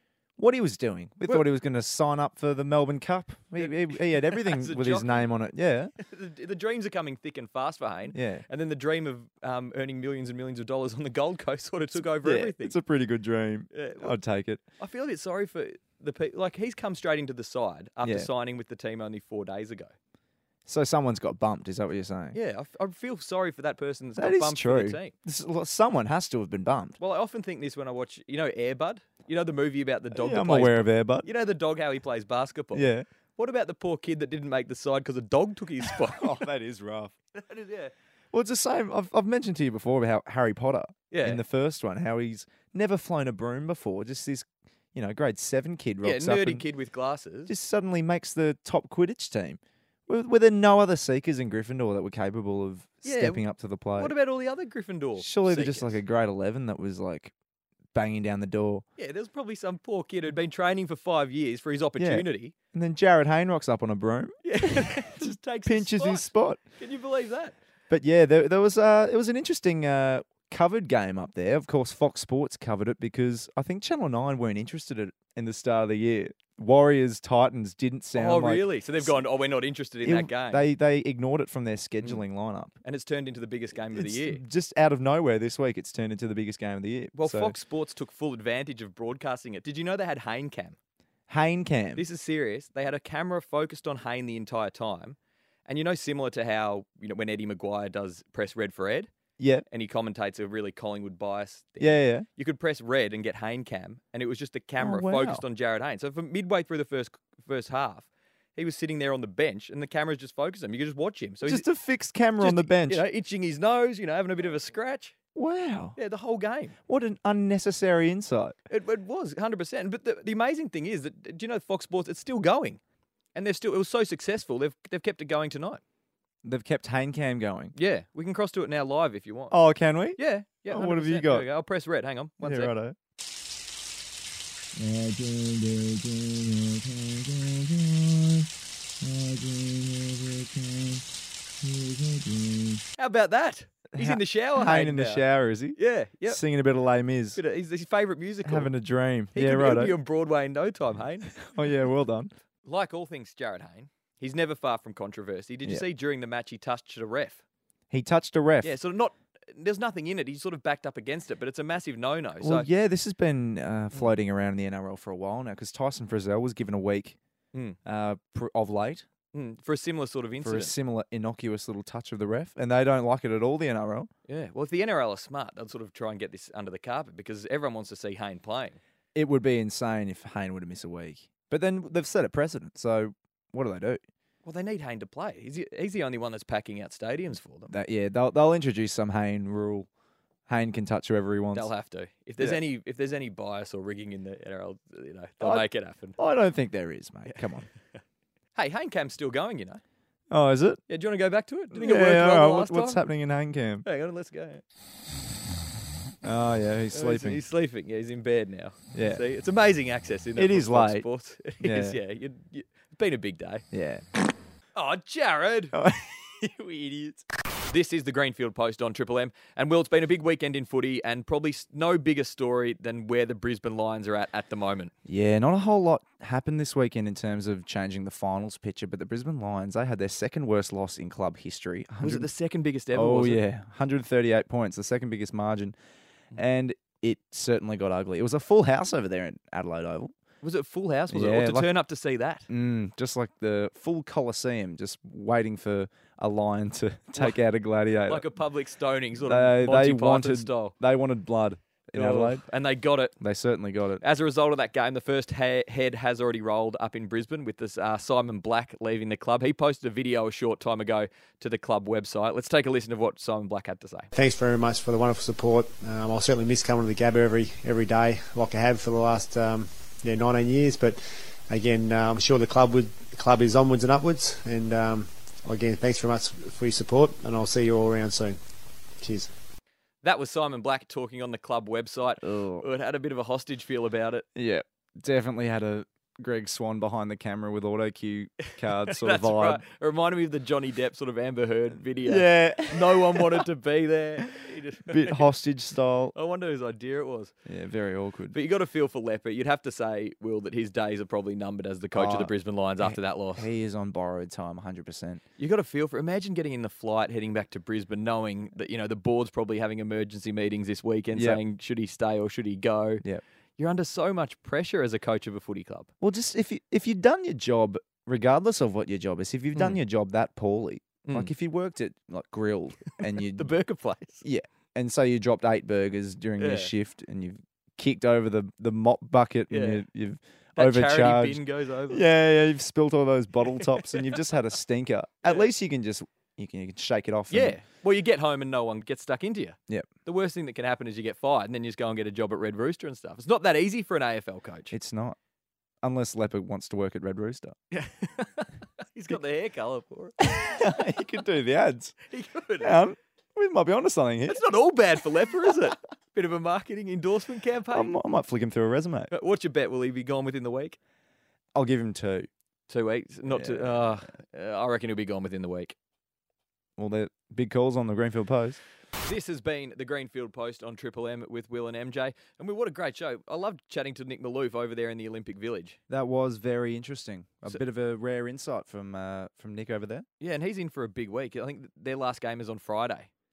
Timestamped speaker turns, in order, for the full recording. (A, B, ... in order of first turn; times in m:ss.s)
0:00.4-0:05.9 A
0:03.6-0:05.2 B
0:06.0-0:12.8 B
0:08.1-0:08.4 A
0:12.2-0:14.6 A
0:13.7-0:14.2 B
0:14.8-0:19.9 B
0:18.0-0:18.3 A
0:20.6-0:22.4 A
0:22.3-0:25.1 B
0:24.2-0:27.0 A
0:27.0-0:36.4 B
0:30.1-0:31.3 A
0:32.7-0:33.0 A
0:36.1-0:37.1 A
0:37.3-0:37.9 B
0:38.3-0:46.6 A
0:41.1-0:41.4 B
0:46.0-0:47.5 B
0:47.5-0:54.1 A
0:53.0-0:53.4 B
0:54.0-0:56.0 B
0:55.2-0:57.3 A
0:57.9-0:58.8 A
0:59.0-1:02.5 B
1:02.0-1:06.6 A
1:04.4-1:07.6 B
1:07.9-1:19.2 A
1:18.1-1:20.7 B
1:20.0-1:22.7 A
1:22.8-1:24.4 B
1:23.9-1:27.6 A
1:27.1-1:30.8 B
1:31.3-1:32.0 A
1:32.0-1:39.1 B
1:39.4-1:39.6 A
1:39.7-1:51.7 B
1:41.8-1:42.3 A
1:44.8-1:45.4 A
1:51.4-1:53.0 A
1:52.4-1:55.1 B
1:55.3-1:56.0 A
1:56.0-1:56.7 B
1:56.9-1:58.6 A
1:58.7-2:02.8 B
2:03.3-2:05.8 B
2:06.4-2:07.7 A
2:07.7-2:09.6 B
2:09.5-2:11.5 A
2:10.2-2:12.7 B
2:12.4-2:13.0 A
2:14.7-2:18.5 A
2:19.0-2:21.0 A
2:21.6-2:22.8 A
2:23.0-2:26.4 B
2:23.9-2:27.4 A
2:27.4-2:28.7 B
2:28.4-2:30.0 A
2:29.3-2:31.4 B
2:31.3-2:32.3 A
2:32.6-2:37.4 B
2:37.9-2:38.8 A
2:38.6-2:42.7 B
2:42.4-2:47.2 A
2:47.8-2:49.0 A
2:49.3-2:50.7 B
2:50.4-2:54.1 A
2:54.3-2:58.8 B
2:59.1-3:04.0 A
3:04.4-3:07.7 B
3:07.7-3:09.9 A
3:10.5-3:11.7 A
3:11.5-3:16.2 B
3:15.4-3:15.6 A
3:16.2-3:17.7 A
3:17.2-3:18.0 B
3:18.5-3:19.8 B
3:20.3-3:20.8 A
3:20.9-3:23.0 B
3:21.7-3:23.8 A
3:23.8-3:24.6 B
3:26.2-3:27.4 A
3:26.9-3:33.6 B
3:28.9-3:29.2 A
3:30.4-3:32.0 A
3:33.7-3:34.0 A
3:34.7-3:35.8 B
3:35.7-3:37.2 A
3:37.7-3:44.9 B
3:45.0-3:52.3 A
3:52.0-3:53.4 B
3:52.9-3:55.8 A
3:56.3-4:00.1 A
4:00.4-4:02.5 B
4:01.1-4:01.7 A
4:02.5-4:08.3 A
4:08.1-4:10.7 B
4:09.2-4:12.4 A
4:11.9-4:13.2 B
4:13.2-4:14.0 A
4:14.0-4:24.1 B
4:24.1-4:38.4 C
4:39.0-4:39.3 C
4:40.0-4:44.2 B
4:42.2-4:42.6 A
4:44.3-4:49.6 A
4:48.5-4:55.3 B
4:52.0-4:53.4 A
4:54.9-4:56.1 A
4:56.1-4:57.3 B
4:57.4-4:58.4 A
4:58.3-5:03.5 B
5:01.9-5:05.2 A
5:05.4-5:13.0 B
5:11.1-5:11.4 A
5:13.6-5:15.9 B
5:16.0-5:23.5 A
5:21.0-5:21.3 B
5:23.1-5:24.2 B
5:24.2-5:37.6 A
5:26.4-5:26.7 B
5:29.5-5:29.8 B
5:30.6-5:32.0 B
5:33.7-5:34.0 B
5:37.3-5:44.7 B
5:44.7-5:45.2 A
5:45.8-5:47.6 A
5:47.7-5:50.2 B
5:50.2-5:52.0 A
5:52.1-5:52.7 B
5:52.6-5:54.4 A
5:54.3-5:57.9 B
5:57.7-5:59.1 A
5:59.1-6:00.8 B
6:01.5-6:02.3 A
6:02.7-6:05.8 B
6:03.3-6:03.8 A
6:06.8-6:08.6 A
6:09.0-6:15.8 B
6:15.9-6:20.0 A
6:20.2-6:23.1 B